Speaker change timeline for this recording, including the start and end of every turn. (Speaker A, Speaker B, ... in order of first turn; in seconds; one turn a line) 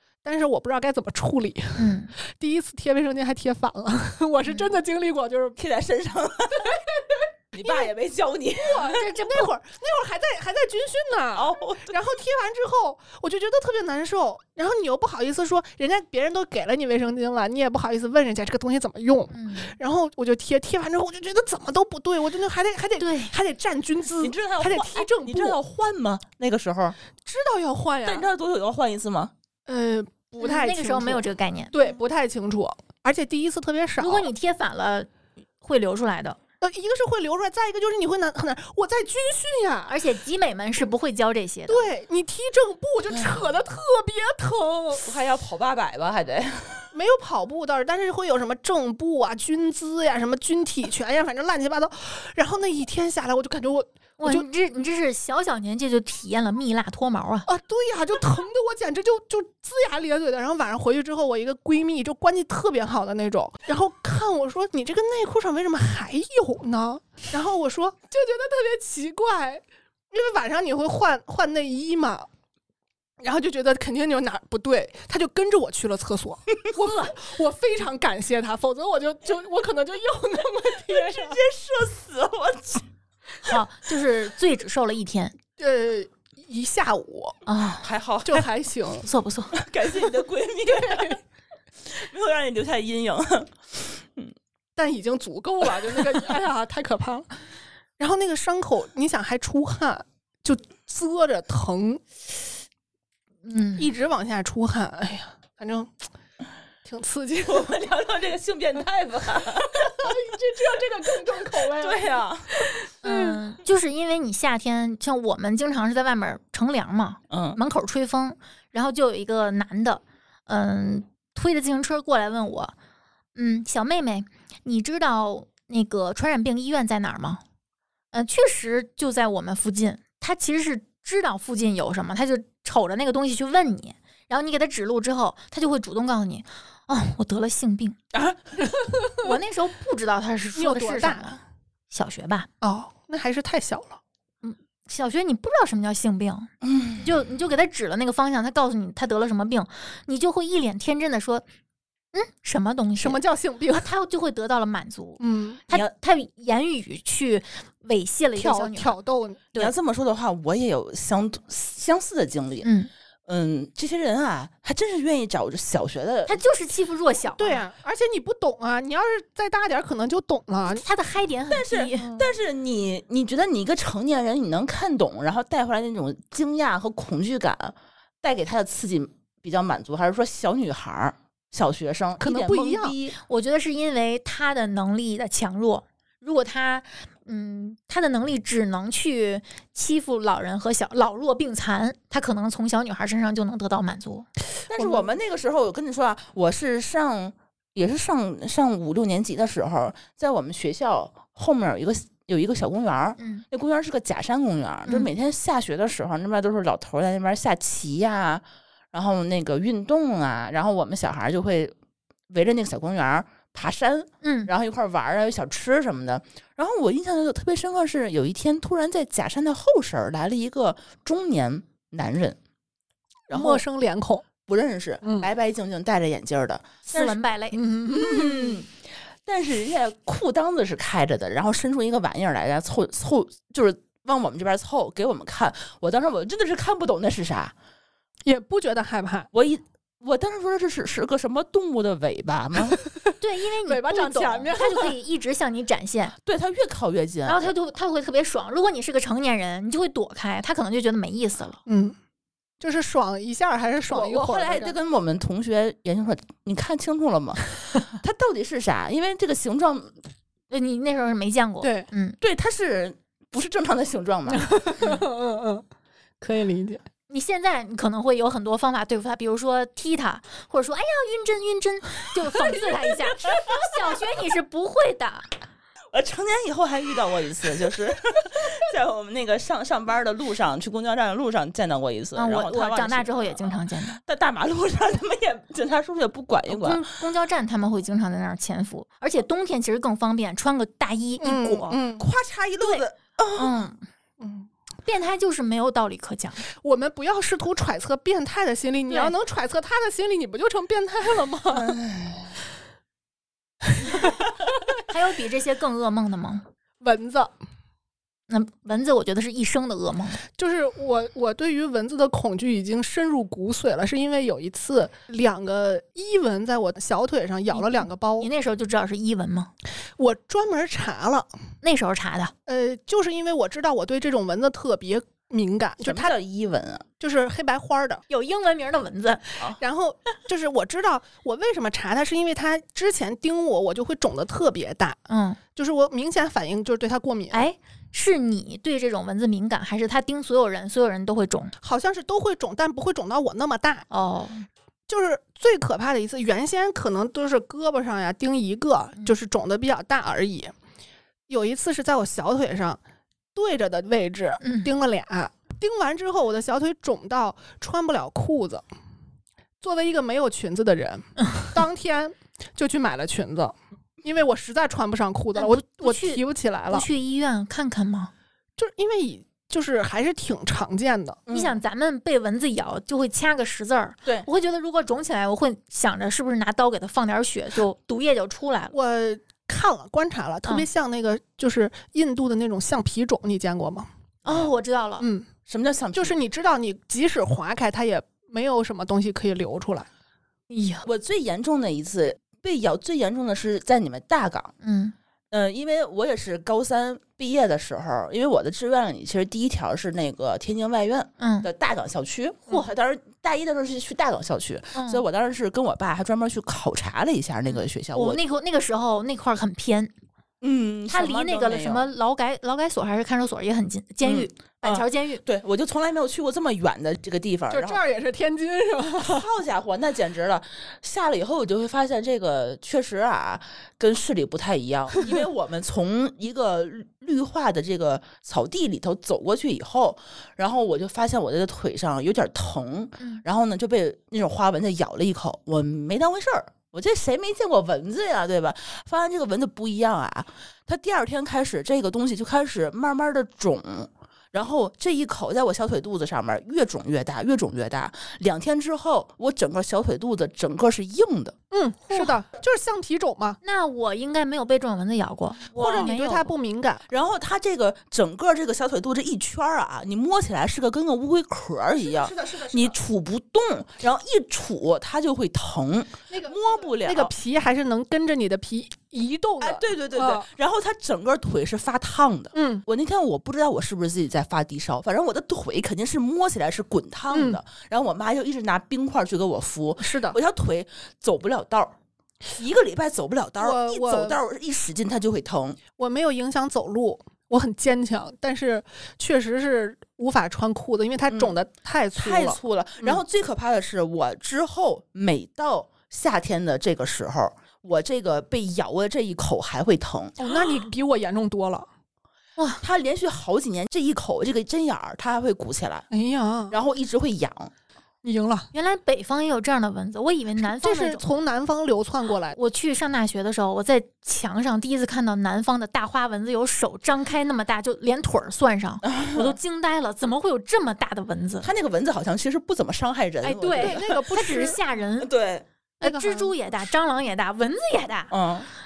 Speaker A: 0.2-5.6
Speaker B: 1.8-2.1
Speaker C: 5.6-6.8
Speaker A: 6.6-7.9
Speaker C: 7.5-9.0
Speaker A: 8.6-25.6
Speaker B: 8.9-9.5
Speaker C: 11.3-12.0
Speaker B: 19.3-19.8
Speaker B: 23.0-23.3
Speaker C: 24.2-27.0
Speaker A: 27.2-28.3
Speaker C: 28.0-29.3
Speaker A: 29.7-34.3
Speaker B: 30.4-31.7
Speaker B: 34.0-35.1
Speaker B: 35.6-36.4
Speaker A: 36.6-40.0
Speaker B: 39.9-41.9
Speaker A: 41.7-45.1
Speaker C: 45.0-46.9
Speaker A: 46.9-54.5
Speaker B: 54.2-57.5
Speaker A: 57.5-72.3
Speaker A: 73.2-81.4
Speaker B: 76.8-77.1
Speaker C: 80.9-82.8
Speaker B: 83.4-85.4
Speaker A: 85.6-87.4
Speaker B: 87.5-87.9
Speaker C: 87.8-88.5
Speaker A: 88.2-89.1
Speaker B: 89.0-89.6
Speaker C: 89.5-91.2
Speaker A: 90.8-91.1
Speaker C: 91.8-94.3
Speaker A: 94.8-97.4
Speaker A: 98.0-102.0
Speaker B: 103.5-103.9
Speaker A: 103.8-105.9
Speaker A: 106.8-107.7
Speaker C: 107.5-110.1
Speaker A: 109.7-112.2
Speaker C: 111.8-112.6
Speaker B: 113.0-122.7
Speaker C: 117.3-117.6
Speaker B: 123.4-127.4
Speaker B: 128.1-138.0
Speaker C: 138.1-138.4
Speaker B: 139.2-141.4
Speaker A: 140.6-141.4
Speaker B: 141.9-142.5
Speaker A: 142.6-144.0
Speaker B: 144.4-151.4
Speaker C: 146.6-147.0
Speaker B: 152.1-153.2
Speaker A: 153.0-153.9
Speaker B: 153.7-159.0
Speaker A: 155.2-155.6
Speaker A: 158.4-159.4
Speaker C: 159.6-162.7
Speaker B: 162.6-162.9
Speaker C: 163.3-166.4
Speaker B: 166.3-167.6
Speaker A: 167.4-170.8
Speaker B: 170.7-172.2
Speaker C: 171.5-183.2
Speaker A: 182.2-183.0
Speaker B: 183.2-194.3
Speaker C: 194.7-211.7
Speaker A: 194.8-195.1
Speaker B: 203.2-203.4
Speaker C: 212.3-222.4
Speaker B: 214.2-214.5
Speaker A: 223.3-224.3
Speaker C: 223.3-223.6
Speaker C: 224.5-227.2
Speaker A: 225.0-225.3
Speaker B: 226.9-227.6
Speaker A: 227.5-228.6
Speaker C: 227.9-237.5
Speaker A: 238.3-239.3
Speaker C: 239.3-242.8
Speaker B: 243.2-246.1
Speaker A: 243.7-245.0
Speaker C: 246.2-247.5
Speaker B: 247.2-251.6
Speaker A: 251.7-252.0
Speaker A: 252.6-254.7
Speaker C: 253.9-259.9
Speaker B: 260.5-262.2
Speaker A: 261.6-261.9
Speaker C: 262.2-264.5
Speaker A: 264.3-265.6
Speaker A: 266.2-266.8
Speaker B: 267.1-275.3
Speaker C: 275.9-286.8
Speaker B: 282.2-284.0
Speaker B: 286.5-291.8
Speaker A: 291.2-292.1
Speaker C: 292.0-293.5
Speaker B: 292.6-293.8
Speaker A: 294.2-294.5
Speaker B: 294.9-296.4
Speaker A: 296.6-301.8
Speaker C: 301.5-302.4
Speaker B: 304.8-306.4
Speaker A: 306.8-307.3
Speaker B: 308.3-310.2
Speaker A: 310.4-318.3
Speaker B: 317.5-319.5
Speaker A: 320.0-321.3
Speaker B: 321.6-322.3
Speaker A: 322.5-326.2
Speaker C: 325.8-326.9
Speaker A: 327.0-328.0
Speaker B: 328.1-329.4
Speaker A: 329.6-335.0
Speaker B: 335.1-335.4
Speaker A: 335.6-337.5
Speaker B: 337.3-341.5
Speaker A: 341.6-343.9
Speaker B: 343.9-344.4
Speaker A: 344.9-350.5
Speaker A: 351.3-352.8
Speaker A: 353.4-358.6
Speaker B: 354.4-354.7
Speaker A: 359.6-366.9
Speaker B: 365.4-368.1
Speaker A: 368.6-371.2
Speaker C: 371.3-371.5
Speaker B: 371.3-378.7
Speaker A: 378.7-383.9
Speaker B: 384.2-385.1
Speaker A: 385.0-385.3
Speaker C: 385.5-386.1
Speaker A: 385.9-389.9
Speaker B: 390.5-390.9
Speaker C: 390.9-394.5
Speaker B: 394.6-394.9
Speaker C: 395.3-408.2
Speaker B: 401.2-401.5
Speaker B: 404.7-405.1
Speaker B: 407.9-409.9
Speaker C: 410.4-411.9
Speaker B: 410.9-415.2
Speaker C: 414.1-417.8
Speaker A: 417.5-419.3
Speaker C: 419.0-451.4
Speaker A: 451.5-453.4
Speaker B: 453.4-456.3
Speaker A: 455.6-456.9
Speaker C: 456.9-467.1
Speaker A: 462.0-462.7
Speaker A: 466.1-470.3
Speaker C: 469.4-481.8
Speaker A: 472.3-472.6
Speaker A: 477.1-477.4
Speaker A: 479.8-480.2
Speaker C: 482.4-485.6
Speaker A: 483.4-484.2
Speaker A: 485.8-493.0
Speaker C: 491.1-491.4
Speaker C: 491.9-500.3
Speaker A: 500.2-501.7
Speaker B: 502.4-502.6
Speaker C: 502.6-505.9
Speaker A: 505.9-506.6
Speaker C: 506.5-507.5
Speaker A: 508.0-508.5
Speaker B: 508.5-511.0
Speaker A: 510.4-512.4
Speaker B: 512.4-521.5
Speaker C: 518.9-519.4
Speaker C: 521.4-524.0
Speaker B: 523.2-525.1
Speaker A: 523.6-524.6
Speaker C: 525.0-525.5
Speaker B: 525.8-528.1
Speaker A: 525.8-526.3
Speaker C: 528.1-528.5